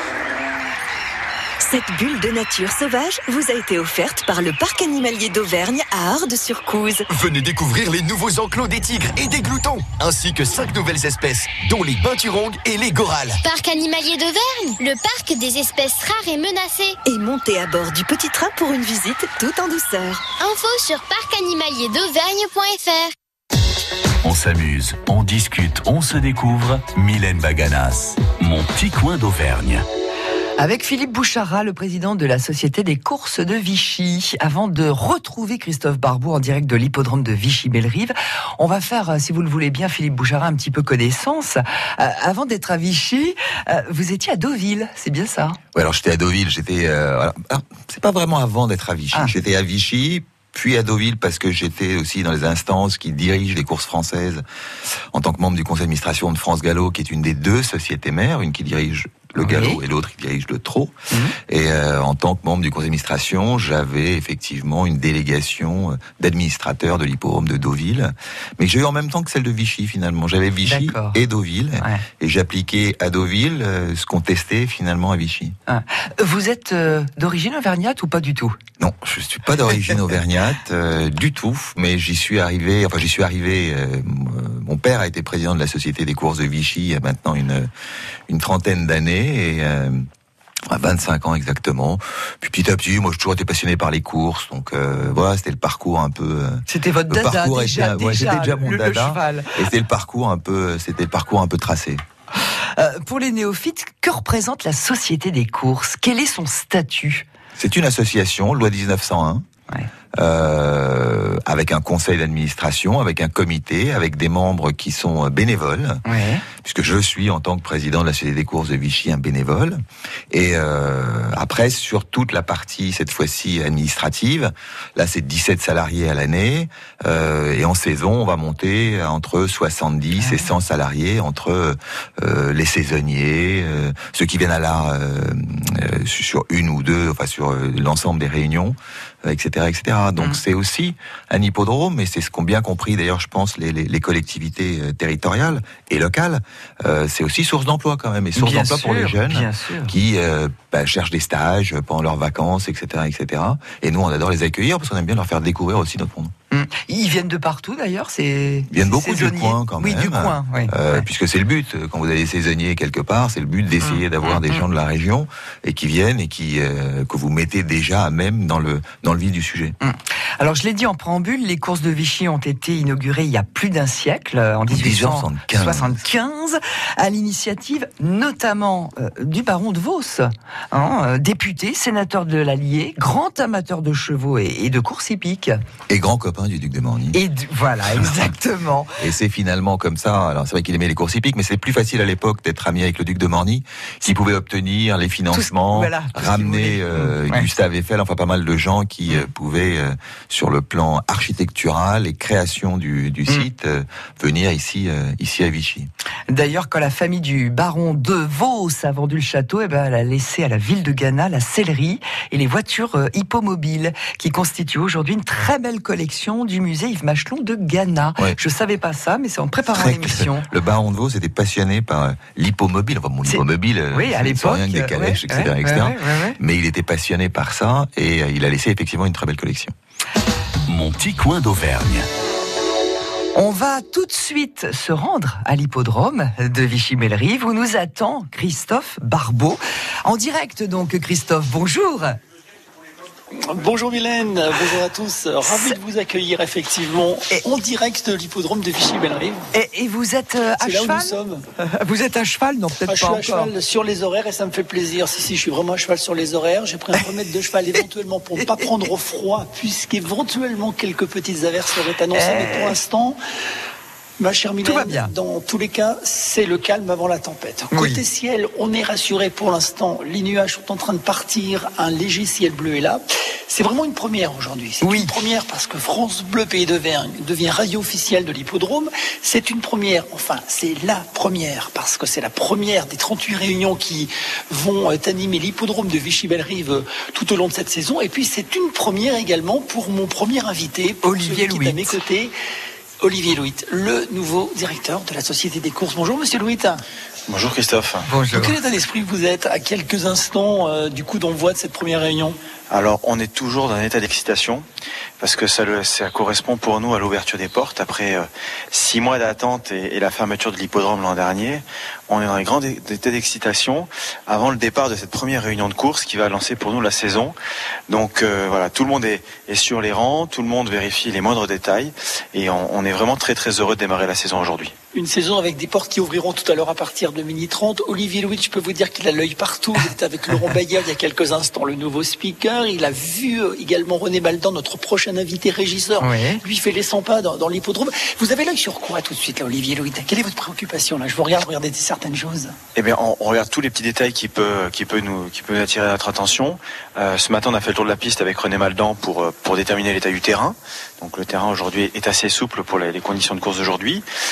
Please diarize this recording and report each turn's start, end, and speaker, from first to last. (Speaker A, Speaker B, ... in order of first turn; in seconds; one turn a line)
Speaker A: 1.6-7.0
Speaker B: 7.1-13.4
Speaker C: 13.4-17.0
Speaker A: 17.0-20.3
Speaker C: 20.4-23.1
Speaker D: 24.2-29.8
Speaker E: 30.6-45.6
Speaker F: 45.7-54.4
Speaker F: 55.1-60.9
Speaker E: 59.4-59.8
Speaker E: 61.1-61.4
Speaker F: 61.5-75.5
Speaker E: 70.7-71.2
Speaker E: 75.7-78.6
Speaker F: 78.8-87.7
Speaker F: 88.3-90.0
Speaker F: 90.7-102.0
Speaker E: 96.7-99.7
Speaker E: 102.7-107.2
Speaker F: 107.6-109.4
Speaker F: 110.1-116.0
Speaker E: 116.0-116.4
Speaker F: 116.6-156.3
Speaker E: 130.2-130.5
Speaker E: 148.3-149.9
Speaker E: 156.5-161.0
Speaker F: 158.7-169.8
Speaker E: 163.8-164.6
Speaker E: 169.8-185.6
Speaker F: 174.7-176.0
Speaker F: 185.9-187.2
Speaker E: 187.1-189.0
Speaker F: 187.9-188.3
Speaker F: 189.0-205.9
Speaker E: 195.3-197.5
Speaker E: 206.3-220.5
Speaker F: 219.7-229.7
Speaker E: 223.9-226.4
Speaker D: 230.7-232.1
Speaker E: 233.3-242.2
Speaker G: 243.3-249.5
Speaker E: 245.4-245.8
Speaker E: 249.5-253.5
Speaker G: 250.6-251.4
Speaker G: 252.8-263.2
Speaker E: 258.4-258.7
Speaker E: 262.1-262.8
Speaker G: 264.2-292.3
Speaker E: 264.6-265.1
Speaker E: 267.7-268.0
Speaker E: 274.8-275.1
Speaker E: 291.0-292.0
Speaker G: 293.0-296.8
Speaker H: 297.3-298.1
Speaker E: 298.1-298.6
Speaker G: 298.3-302.4
Speaker H: 302.7-304.6
Speaker H: 305.2-317.3
Speaker H: 317.9-324.7
Speaker G: 324.9-342.5
Speaker E: 336.0-336.4
Speaker H: 342.7-354.0